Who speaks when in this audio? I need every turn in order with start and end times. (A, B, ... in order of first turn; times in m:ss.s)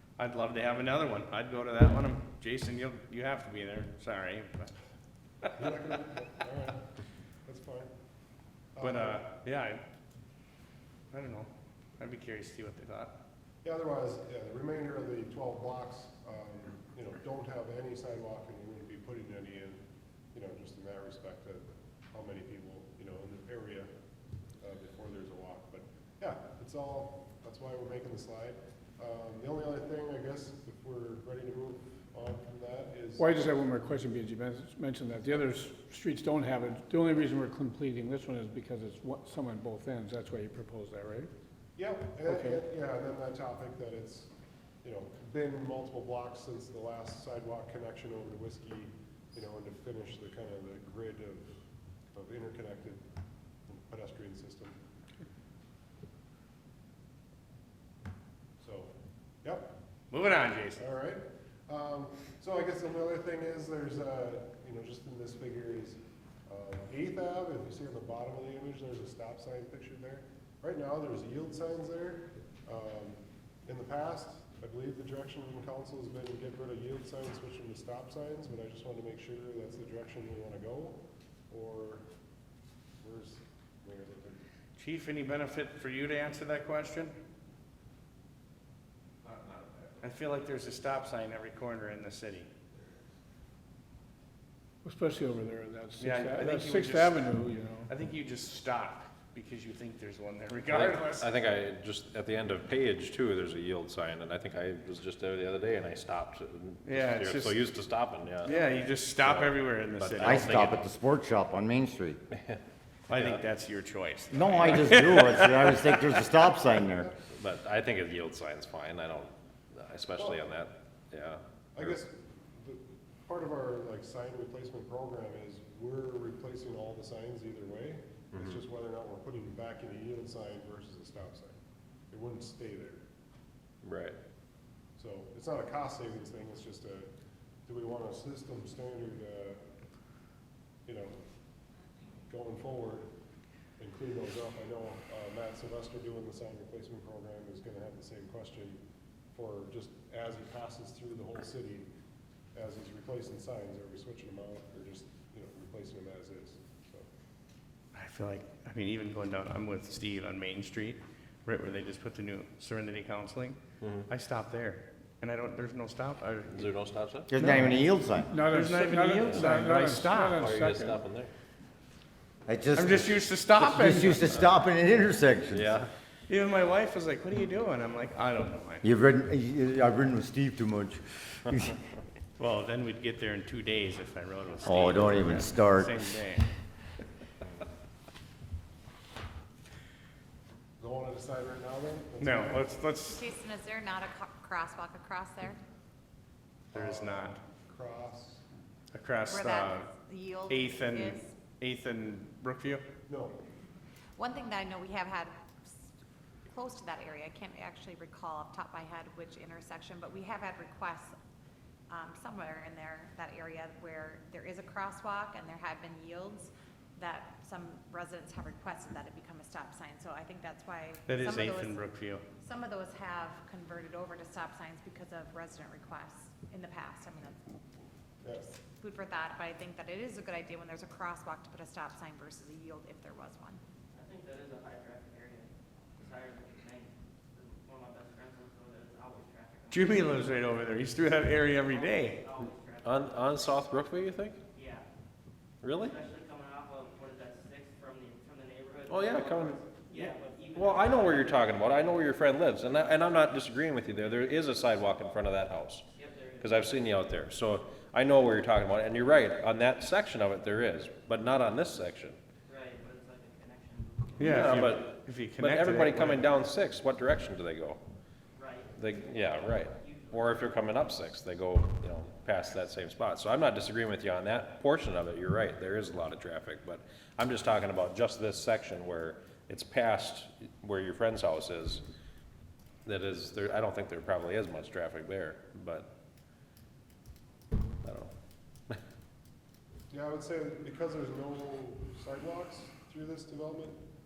0:00.2-0:04.8 A
0:05.6-0:06.8 B
0:07.4-0:07.9 B
0:08.8-0:09.3 B
0:08.8-0:09.8 A
0:11.1-0:13.2 A
0:13.6-0:19.8 B
0:20.3-0:23.9 B
0:24.6-0:33.3 B
0:33.2-0:41.3 C
0:41.8-0:44.3 B
0:42.2-0:42.6 C
0:44.8-0:51.5 B
0:52.1-0:53.0 B
0:53.7-0:54.8 B
0:58.6-0:58.9 B
0:59.4-0:59.8 B
1:00.1-1:00.8 A
1:00.8-1:22.0 B
1:23.0-1:24.4 B
1:24.8-1:27.2 A
1:29.2-1:29.9 D
1:30.0-1:32.5 A
1:34.8-1:37.9 C
1:36.0-1:41.3 A
1:40.7-1:41.7 D
1:40.9-1:46.8 E
1:46.8-1:48.6 D
1:46.8-1:47.6 A
1:47.7-1:48.4 E
1:48.4-1:50.7 A
1:49.2-1:50.6 D
1:50.2-1:52.2 F
1:53.1-1:55.9 A
1:53.2-1:53.4 D
1:54.3-1:57.1 F
1:56.8-1:57.1 B
1:57.4-1:59.3 E
1:57.5-1:58.1 D
1:59.7-2:01.2 D
2:01.1-2:01.4 E
2:01.8-2:11.6 B
2:12.1-2:13.0 B
2:13.8-2:14.1 E
2:15.0-2:17.1 B
2:17.7-2:19.6 B
2:20.9-2:21.2 B
2:22.3-2:23.1 B
2:23.8-2:28.8 B
2:29.3-2:31.9 B
2:32.6-2:37.1 B
2:37.9-2:46.7 A
2:46.6-2:47.3 D
2:46.6-2:47.2 E
2:47.3-2:48.4 F
2:47.4-2:47.8 C
2:48.3-2:51.0 C
2:48.5-2:50.5 A
2:50.4-2:51.1 D
2:50.4-2:51.3 E
2:52.5-2:55.7 F
2:52.8-2:54.3 A
2:56.3-2:58.9 A
2:58.8-3:01.8 F
3:02.4-3:06.5 A
3:04.6-3:06.0 F
3:10.8-3:12.7 B
3:12.2-3:13.2 A
3:13.1-3:15.6 D
3:16.7-3:17.4 A
3:16.7-3:18.4 B
3:18.9-3:19.9 A
3:19.3-3:21.3 D
3:20.5-3:22.8 A
3:23.1-3:23.4 B
3:24.2-3:25.3 D
3:26.5-3:31.1 D
3:31.9-3:36.5 D
3:37.0-3:41.8 D
3:41.1-3:42.2 A
3:42.4-3:47.4 D
3:48.2-3:48.6 B
3:48.7-3:53.6 D
3:49.9-3:50.2 E
3:53.9-4:00.4 G
3:59.7-4:02.2 A
4:01.5-4:03.6 G
4:02.9-4:04.3 E
4:03.0-4:04.3 D
4:04.5-4:04.8 G
4:05.6-4:05.9 E
4:05.8-4:12.0 G
4:08.9-4:09.5 E
4:09.3-4:09.5 D
4:10.6-4:12.4 E
4:11.8-4:13.8 D
4:13.1-4:15.8 E
4:14.5-4:15.6 D
4:16.0-4:17.0 G
4:16.4-4:20.4 D
4:16.5-4:22.2 E
4:21.0-4:22.1 D
4:22.5-4:24.8 G
4:24.2-4:26.2 A
4:24.5-4:24.8 D
4:25.4-4:26.0 E
4:25.4-4:27.0 D
4:26.8-4:27.8 E
4:28.4-4:30.9 G
4:28.8-4:33.7 E
4:28.9-4:41.2 D
4:35.1-4:37.4 E
4:38.5-4:41.8 E
4:43.0-4:45.9 E
4:49.9-4:53.8 B